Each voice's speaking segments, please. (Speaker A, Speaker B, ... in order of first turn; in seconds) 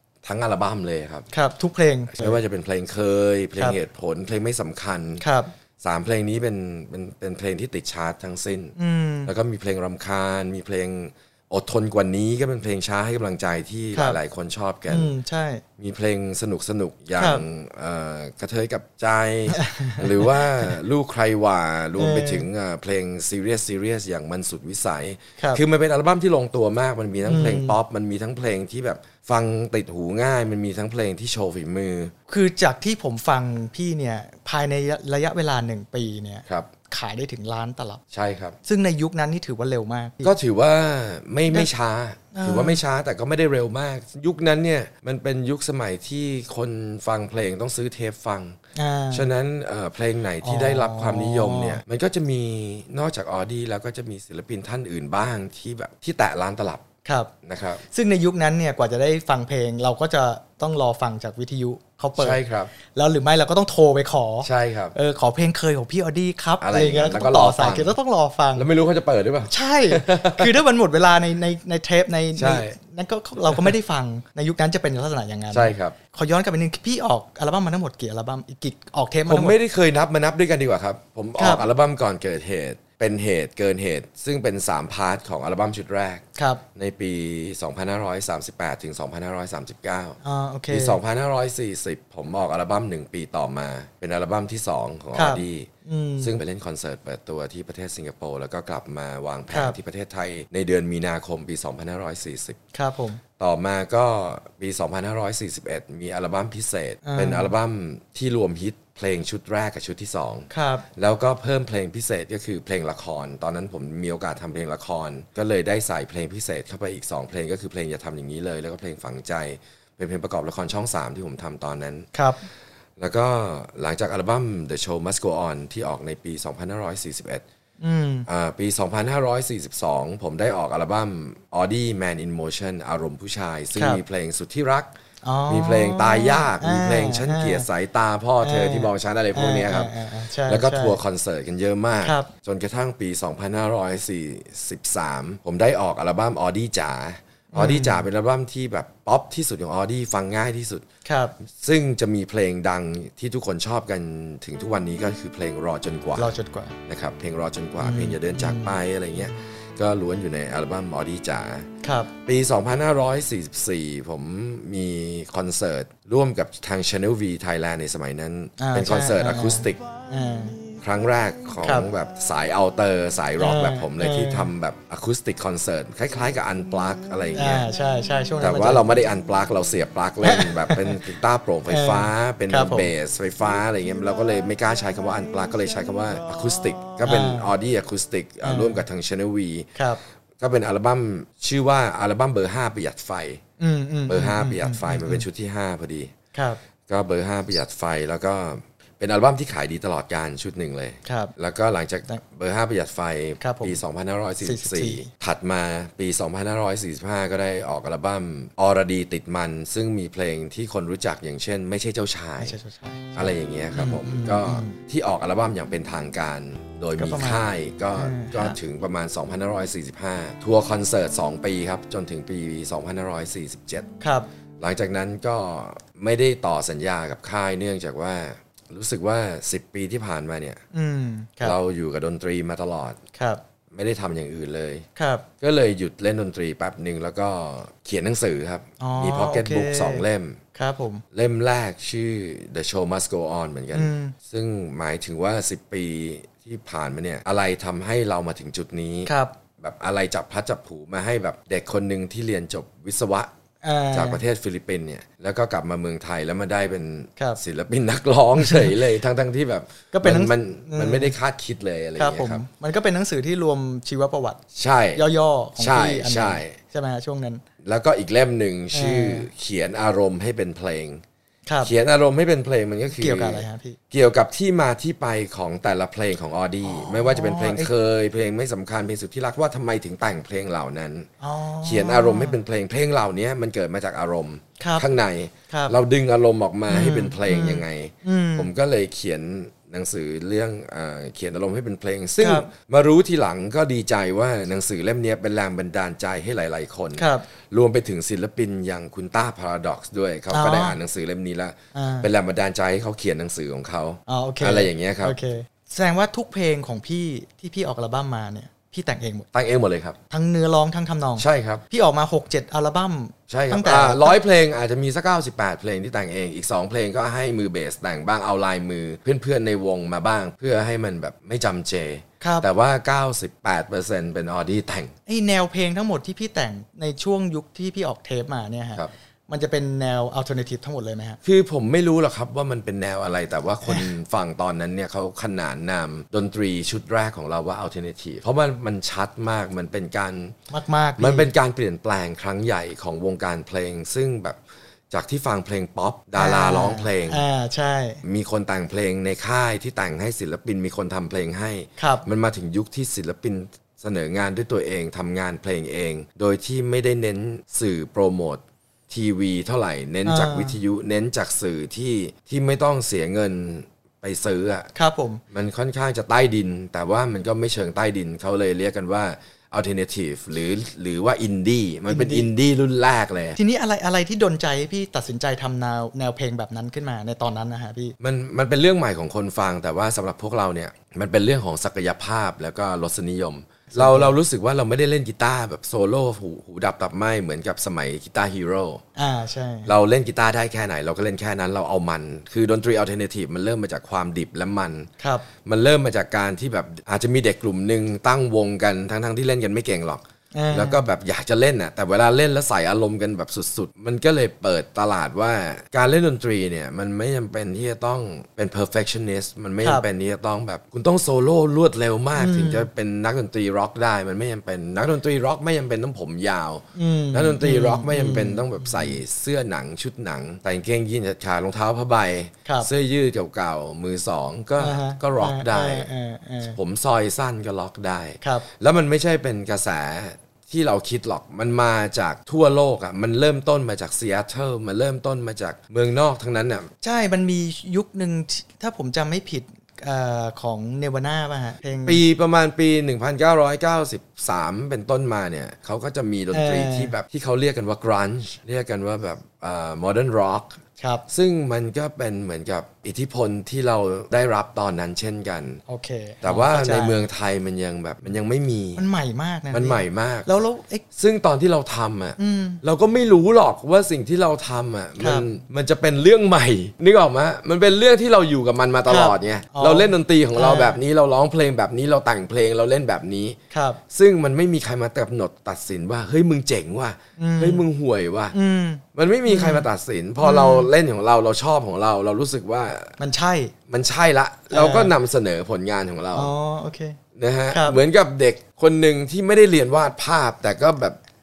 Speaker A: 0.2-1.3, 2.1-5.2, 5.8-8.8, 9.2-15.1, 15.8-32.1, 38.1-38.6, 40.2-48.6, 49.1-56.8, 57.4-57.8, 62.2-62.7, 64.4-65.0, 66.6-67.9, 68.5-70.6, 72.4-72.8, 75.5-76.0, 79.2-86.2, 86.8-90.2, 90.7-95.7, 96.2-102.6, 103.4-122.1, 123.0-127.4, 128.3-134.9, 135.5-139.9, 140.4-150.8, 151.5-156.3, 156.9-161.7, 162.2-169.8, 170.8-177.7, 178.4-189.7, 190.4-193.4, 194.1-196.1, 196.9-212.6, 213.2-223.9, 224.6-230.6, 231.4-233.0, 233.7-234.8, 235.4-240.4, 241.1-253.3, 253.9-262.4, 264.6-265.0, 265.6-266.6, 267.6-271.0, 271.6-281.1, 281.6-305.2, 309.3-310.0, 311.2-311.6, 313.3-324.9, 331.2-340.3, 341.0-344.4, 344.9-347.2, 348.0-364.7, 365.3-373.4, 378.0-388.8, 389.7-394.9, 395.4-425.9, 426.4-436.7, 441.9-450.6, 451.1-455.6, 456.2-458.8, 459.5-460.3, 460.9-473.4, 473.9-478.3, 478.9-482.9, 483.7-486.3, 487.2-491.0
Speaker B: 1.3-2.4, 5.2-5.5, 8.8-9.3, 14.9-15.6, 17.2-17.4, 19.5-20.7, 22.0-22.5, 27.2-27.8, 32.3-38.0, 38.6-40.3, 42.3-42.8, 48.8-49.3, 50.4-51.8, 57.0-57.3, 57.9-62.4, 62.9-68.6, 69.5-79.6, 81.4-81.6, 86.4-86.6, 90.2-91.0, 95.1-96.3, 99.5-99.8, 102.7-103.2, 107.0-107.5, 110.5-110.8, 122.1-122.4, 127.8-128.3, 133.8-134.0, 135.2-137.7, 138.4-141.0, 142.0-142.3, 147.5-148.1, 151.1-151.3, 156.2-156.8, 157.8-158.8, 161.8-162.1, 168.6-170.6, 171.6-171.9, 173.4-174.5, 177.3-179.1, 180.2-181.0, 181.7-182.9, 187.0-187.5, 188.4-188.8, 189.8-190.0, 193.6-195.2, 196.3-196.6, 201.1-201.3, 203.4-203.8, 204.4-205.1, 212.4-214.8, 216.9-217.4, 217.9-218.6, 224.0-224.3, 230.7-231.6, 233.2-233.4, 234.9-235.2, 238.8-240.0, 240.6-241.0, 243.7-244.2, 249.1-249.3, 253.6-254.2, 258.4-258.7, 259.9-261.1, 262.0-264.4, 264.9-267.4, 268.7-269.3, 271.5-271.7, 272.9-273.8, 276.6-277.7, 281.2-282.4, 284.6-284.9, 285.5-285.8, 286.7-288.5, 292.2-292.5, 296.9-297.3, 300.3-300.8, 301.7-302.1, 304.1-309.3, 310.1-314.2, 322.2-322.4, 325.1-331.2, 340.5-341.3, 346.2-348.0, 351.8-352.1, 360.1-360.6, 364.7-365.2, 371.9-372.3, 373.4-377.9, 383.7-384.2, 388.9-389.7, 395.0-395.3, 400.3-400.8, 409.6-409.9, 412.2-412.7, 416.7-419.0, 424.6-426.6, 428.2-428.4, 436.8-442.0, 446.3-446.9, 450.8-451.0, 455.7-457.0, 458.8-460.8, 462.2-462.6, 465.0-465.3, 468.9-470.8, 473.5-473.8, 477.2-477.6, 478.3-479.7, 480.2-480.7, 483.0-483.5, 484.5-484.9, 486.1-487.0, 487.5-487.8